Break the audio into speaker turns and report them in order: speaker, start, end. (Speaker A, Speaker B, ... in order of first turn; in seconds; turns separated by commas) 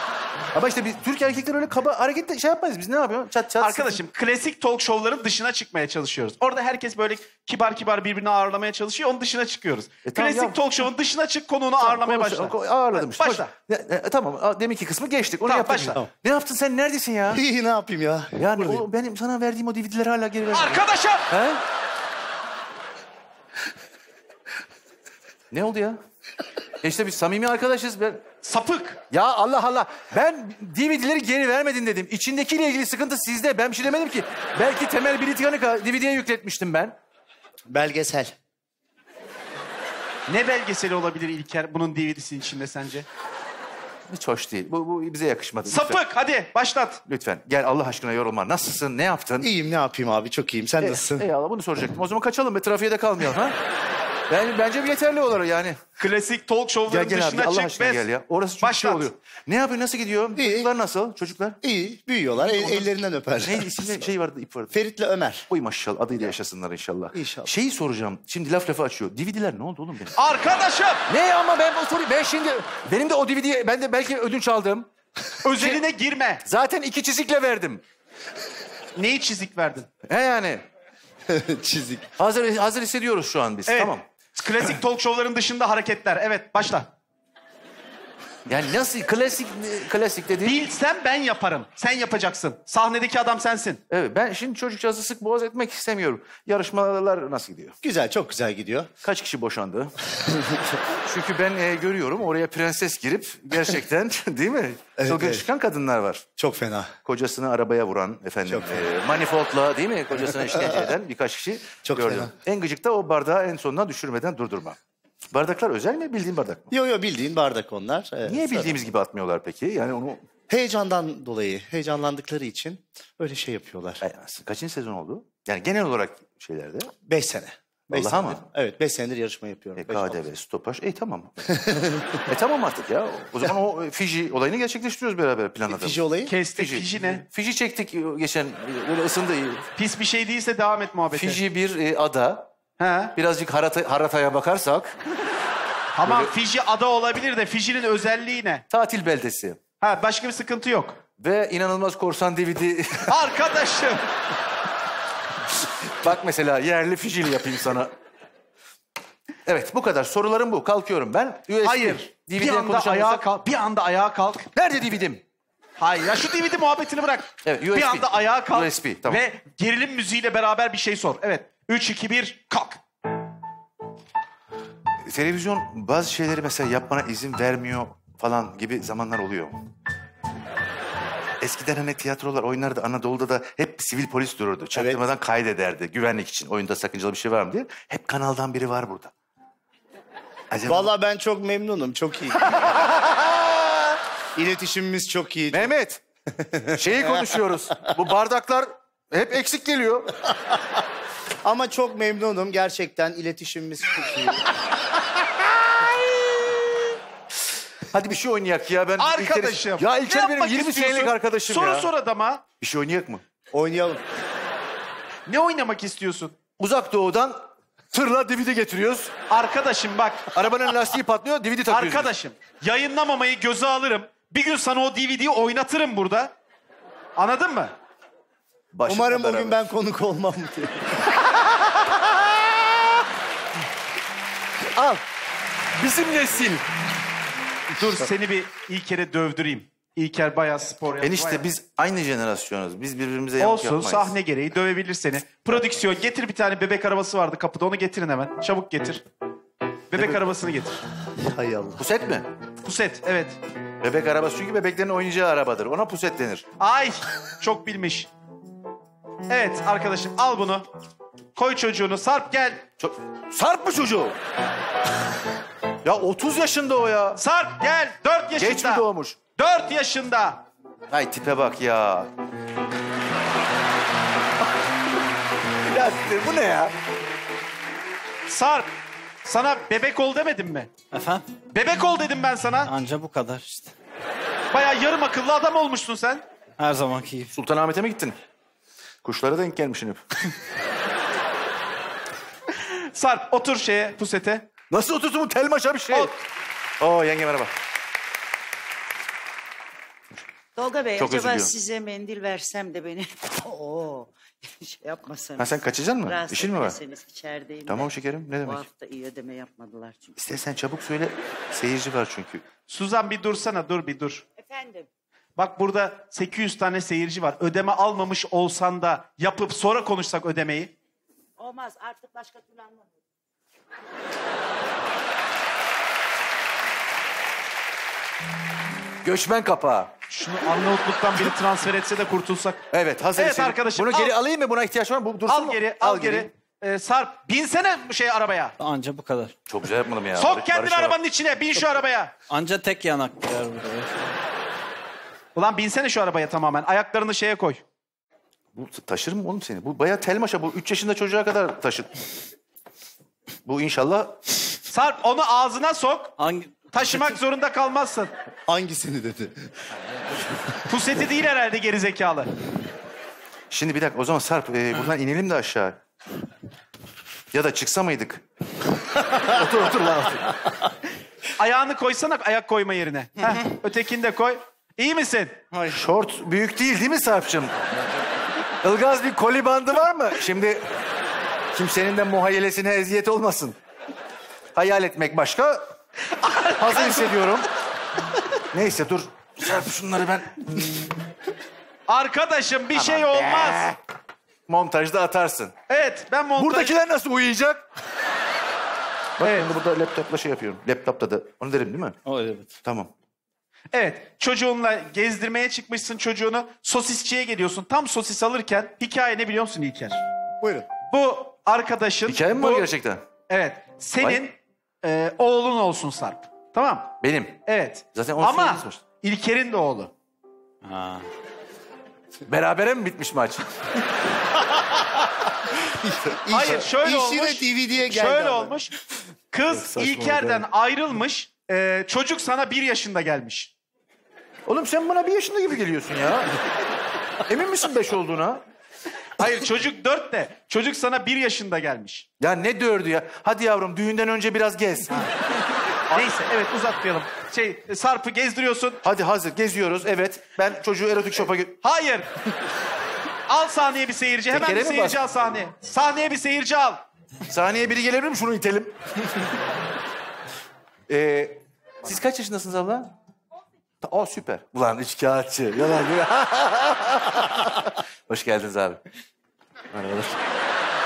Speaker A: 0.5-4.0, Speaker B: 3.6-13.5, Speaker A: 10.0-10.6, Speaker A: 11.8-17.4, Speaker B: 15.4-16.0, Speaker C: 17.3-18.8, Speaker A: 18.3-21.6, Speaker B: 20.5-21.3, Speaker A: 25.5-26.0, Speaker A: 26.8-28.2, Speaker B: 28.4-29.0, Speaker A: 29.1-37.0, Speaker C: 37.7-38.3, Speaker B: 40.3-43.0, Speaker A: 44.1-46.0, Speaker B: 45.7-47.0, Speaker A: 47.1-49.5, Speaker C: 49.4-51.3, Speaker A: 50.8-53.5, Speaker A: 54.3-55.8, Speaker B: 56.0-58.0, Speaker A: 56.9-61.6, Speaker B: 58.6-59.1, Speaker C: 60.3-60.7, Speaker C: 61.6-64.1, Speaker A: 62.4-62.9, Speaker A: 63.4-64.8, Speaker C: 64.7-65.5, Speaker A: 65.5-70.1, Speaker C: 67.1-67.5, Speaker B: 70.2-71.0, Speaker A: 71.1-74.9, Speaker B: 75.4-76.4, Speaker A: 75.5-75.8, Speaker A: 76.4-77.8, Speaker B: 79.0-79.9, Speaker A: 80.1-80.6, Speaker C: 81.3-82.1, Speaker A: 82.2-84.0, Speaker B: 83.7-86.9, Speaker A: 88.5-90.6, Speaker B: 90.4-93.8, Speaker A: 93.9-97.7, Speaker C: 97.8-98.9, Speaker A: 99.0-99.9, Speaker C: 100.2-100.8, Speaker A: 101.0-106.2, Speaker C: 105.0-105.4, Speaker C: 106.4-106.9, Speaker A: 107.0-114.8, Speaker C: 108.5-108.8, Speaker C: 110.5-110.9, Speaker C: 111.8-112.3, Speaker A: 115.3-116.7, Speaker C: 116.7-118.8, Speaker A: 118.3-120.2, Speaker C: 120.5-124.0, Speaker A: 124.0-126.9, Speaker C: 127.0-130.2, Speaker A: 127.9-128.4, Speaker A: 129.8-131.4, Speaker C: 131.5-132.2, Speaker A: 132.3-139.7, Speaker C: 135.7-136.3, Speaker B: 136.3-137.2, Speaker B: 139.8-141.4, Speaker A: 141.1-142.5, Speaker B: 142.8-143.1, Speaker A: 143.1-144.9, Speaker B: 145.9-148.6, Speaker A: 146.1-146.3, Speaker A: 148.7-149.6, Speaker B: 149.8-151.0, Speaker A: 151.2-153.2, Speaker B: 153.1-154.0, Speaker A: 156.0-157.9, Speaker A: 159.4-163.2, Speaker B: 161.6-164.5, Speaker A: 164.5-165.2, Speaker B: 165.8-172.8, Speaker A: 167.4-169.2, Speaker A: 175.0-179.6, Speaker A: 181.4-189.1, Speaker C: 184.7-185.0, Speaker A: 190.5-190.9, Speaker C: 190.6-192.5, Speaker A: 192.4-194.0, Speaker C: 194.3-195.7, Speaker A: 195.5-196.0, Speaker C: 196.3-197.2, Speaker A: 196.7-200.1, Speaker C: 201.4-204.5, Speaker A: 205.6-206.9, Speaker A: 207.9-211.9, Speaker B: 209.0-212.4, Speaker A: 212.6-213.2, Speaker C: 213.5-214.0, Speaker B: 215.3-216.3, Speaker A: 216.6-219.1, Speaker B: 219.3-220.3, Speaker A: 220.3-222.1, Speaker B: 221.7-226.3, Speaker B: 227.2-227.7, Speaker A: 228.7-229.6, Speaker C: 228.8-230.9, Speaker A: 235.8-236.6, Speaker B: 237.7-241.4, Speaker A: 241.0-244.1, Speaker B: 243.4-249.0, Speaker B: 249.9-250.8, Speaker A: 249.9-250.3, Speaker C: 251.2-251.8, Speaker A: 251.8-252.3, Speaker B: 252.6-253.4, Speaker A: 253.8-256.4, Speaker B: 256.6-258.1, Speaker B: 259.3-260.6, Speaker B: 261.4-262.6, Speaker A: 262.8-264.1, Speaker A: 265.8-267.2, Speaker B: 267.1-270.4, Speaker A: 268.4-269.2, Speaker A: 270.9-272.1, Speaker A: 275.6-276.7, Speaker B: 278.3-278.7, Speaker B: 279.2-280.7, Speaker D: 280.9-281.2, Speaker B: 281.5-282.7, Speaker D: 282.6-283.7, Speaker B: 284.5-286.2, Speaker D: 286.6-287.3, Speaker A: 287.3-288.1, Speaker A: 289.0-290.0, Speaker B: 292.7-294.5, Speaker A: 294.7-296.1, Speaker A: 296.8-297.5, Speaker E: 300.6-310.1, Speaker A: 300.9-301.5, Speaker A: 305.4-306.8, Speaker A: 307.7-308.6, Speaker A: 310.2-312.4, Speaker B: 312.7-314.2, Speaker E: 314.4-314.9, Speaker B: 315.4-320.7, Speaker E: 321.4-322.9, Speaker A: 329.0-329.9, Speaker B: 330.1-332.6, Speaker A: 332.7-336.3, Speaker B: 333.1-334.1, Speaker B: 335.3-338.5, Speaker D: 338.6-339.3, Speaker A: 339.5-340.9, Speaker B: 340.2-342.1, Speaker D: 342.3-344.1, Speaker B: 345.4-347.6, Speaker A: 348.5-351.9, Speaker A: 353.4-354.2, Speaker B: 354.7-356.1, Speaker D: 356.2-357.1, Speaker B: 356.7-358.1, Speaker C: 358.5-359.5, Speaker B: 360.7-362.3, Speaker A: 363.5-365.8, Speaker A: 367.3-368.2, Speaker A: 369.0-370.4, Speaker B: 371.4-375.4, Speaker D: 375.5-375.8, Speaker A: 375.7-377.8, Speaker A: 378.6-380.6, Speaker A: 381.5-383.6, Speaker A: 384.5-385.7, Speaker B: 386.1-387.1, Speaker A: 386.6-387.5, Speaker A: 388.5-390.7, Speaker B: 391.9-393.7, Speaker A: 392.7-393.8, Speaker A: 394.5-395.5, Speaker B: 395.7-396.7, Speaker A: 396.4-397.6, Speaker A: 399.2-402.0, Speaker B: 399.2-399.5, Speaker D: 402.1-402.5, Speaker A: 402.6-402.9, Speaker B: 403.7-410.0, Speaker C: 410.4-410.7, Speaker B: 410.9-412.7, Speaker A: 412.1-413.0, Speaker B: 413.3-416.9, Speaker A: 417.0-418.8, Speaker B: 417.4-419.9, Speaker D: 420.6-421.1, Speaker A: 422.3-423.4, Speaker C: 425.7-428.5, Speaker A: 426.1-426.5, Speaker B: 426.3-428.7, Speaker B: 429.3-433.5, Speaker A: 429.5-430.4, Speaker A: 434.4-436.3, Speaker A: 437.2-438.4, Speaker B: 439.2-442.1, Speaker A: 442.2-445.1, Speaker B: 445.9-448.8, Speaker A: 448.8-451.6, Speaker B: 451.6-452.1, Speaker B: 453.3-456.8, Speaker A: 454.3-455.0, Speaker A: 457.3-458.7, Speaker A: 460.9-462.9, Speaker A: 463.8-468.8, Speaker A: 469.7-470.2